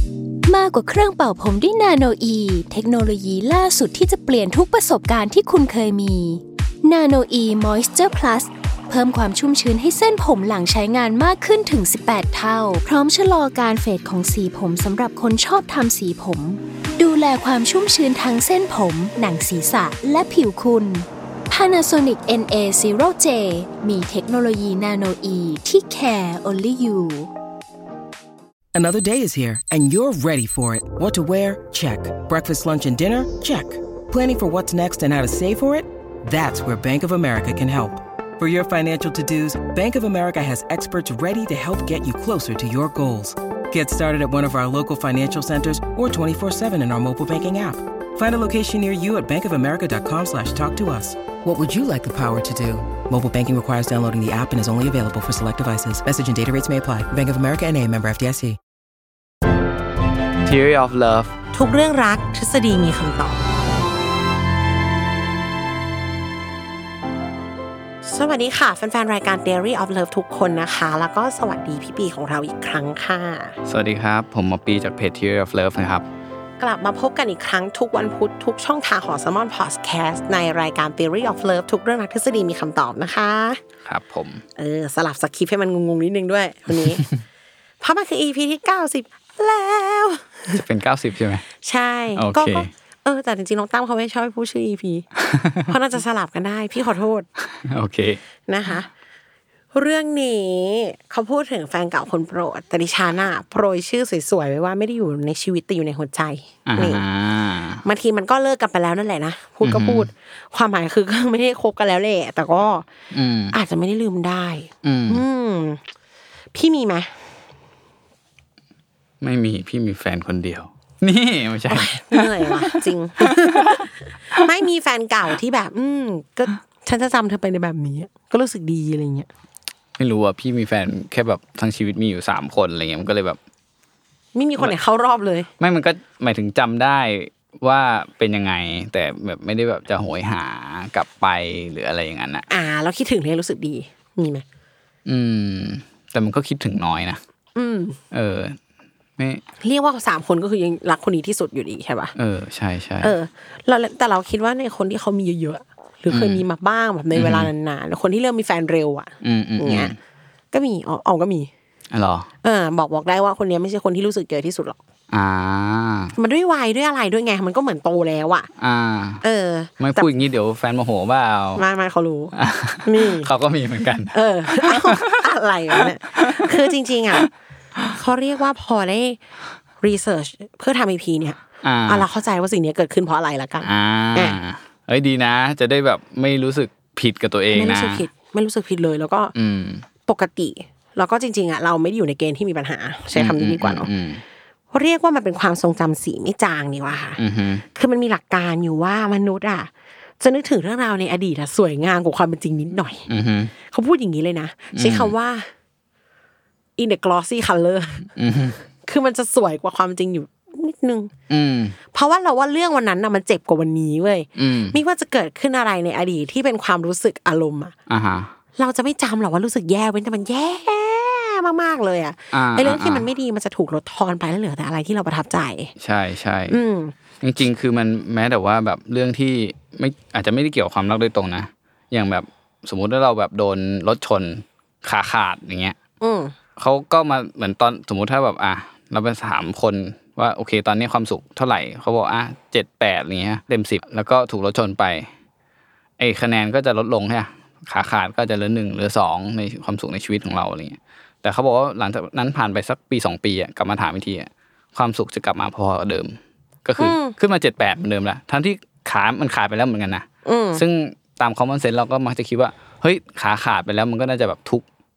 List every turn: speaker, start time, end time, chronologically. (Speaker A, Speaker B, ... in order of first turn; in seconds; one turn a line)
Speaker A: 0.5-27.3
Speaker B: 28.8-58.6
Speaker C: 60.5-61.3
Speaker D: 61.5-63.4
Speaker D: 68.0-73.6
Speaker C: 73.7-76.1
Speaker D: 76.6-83.6
Speaker C: 83.8-84.4
Speaker D: 84.6-87.1
Speaker D: 87.8-90.6
Speaker C: 90.5-91.5
Speaker D: 91.6-95.1
Speaker C: 92.2-92.7
Speaker C: 95.3-95.6
Speaker D: 95.7-97.3
Speaker C: 97.6-98.2
Speaker D: 98.5-98.9
Speaker D: 99.7-107.0
Speaker C: 106.7-107.8
Speaker D: 107.8-112.9
Speaker C: 109.6-110.1
Speaker C: 113.1-113.5
Speaker D: 113.5-115.8
Speaker C: 114.8-115.2
Speaker D: 116.5-117.1
Speaker C: 119.2-122.8
Speaker D: 121.7-129.3
Speaker C: 130.0-133.4
Speaker D: 134.3-135.5
Speaker C: 135.6-142.5
Speaker D: 142.5-144.4
Speaker C: 145.1-147.2
Speaker D: 147.6-148.0
Speaker C: 148.1-148.6
Speaker D: 149.6-152.1
Speaker C: 152.2-153.2
Speaker D: 153.0-159.9
Speaker C: 156.1-156.4
Speaker C: 157.1-157.5
Speaker C: 159.2-160.0
Speaker D: 160.5-161.5
Speaker C: 161.9-162.3
Speaker D: 162.4-164.8
Speaker C: 165.1-166.1
Speaker D: 166.2-168.5
Speaker C: 168.6-169.2
Speaker D: 169.2-170.1
Speaker C: 169.8-171.6
Speaker D: 171.6-172.3
Speaker C: 172.3-175.2
Speaker D: 172.8-173.3
Speaker D: 174.1-177.3
Speaker C: 175.8-176.7
Speaker D: 177.9-179.2
Speaker D: 179.8-184.4
Speaker C: 181.6-182.1
Speaker C: 183.6-188.0
Speaker D: 187.5-189.3
Speaker C: 189.4-189.8
Speaker D: 190.1-193.9
Speaker C: 193.1-194.2
Speaker D: 194.7-197.2
Speaker C: 197.2-197.6
Speaker D: 197.7-203.1
Speaker C: 203.1-203.5
Speaker D: 203.7-205.5
Speaker C: 204.8-205.1
Speaker D: 206.8-208.1
Speaker C: 208.2-208.6
Speaker D: 208.8-211.1
Speaker C: 211.3-211.8
Speaker D: 211.9-217.8
Speaker C: 214.4-214.8
Speaker C: 217.9-218.3
Speaker D: 218.6-225.7
Speaker C: 222.3-223.1
Speaker C: 225.8-226.6
Speaker D: 226.5-226.9
Speaker C: 227.2-235.8
Speaker D: 236.0-236.3
Speaker C: 236.6-245.1
Speaker C: 246.0-264.6
Speaker D: 256.8-257.1
Speaker D: 260.2-260.6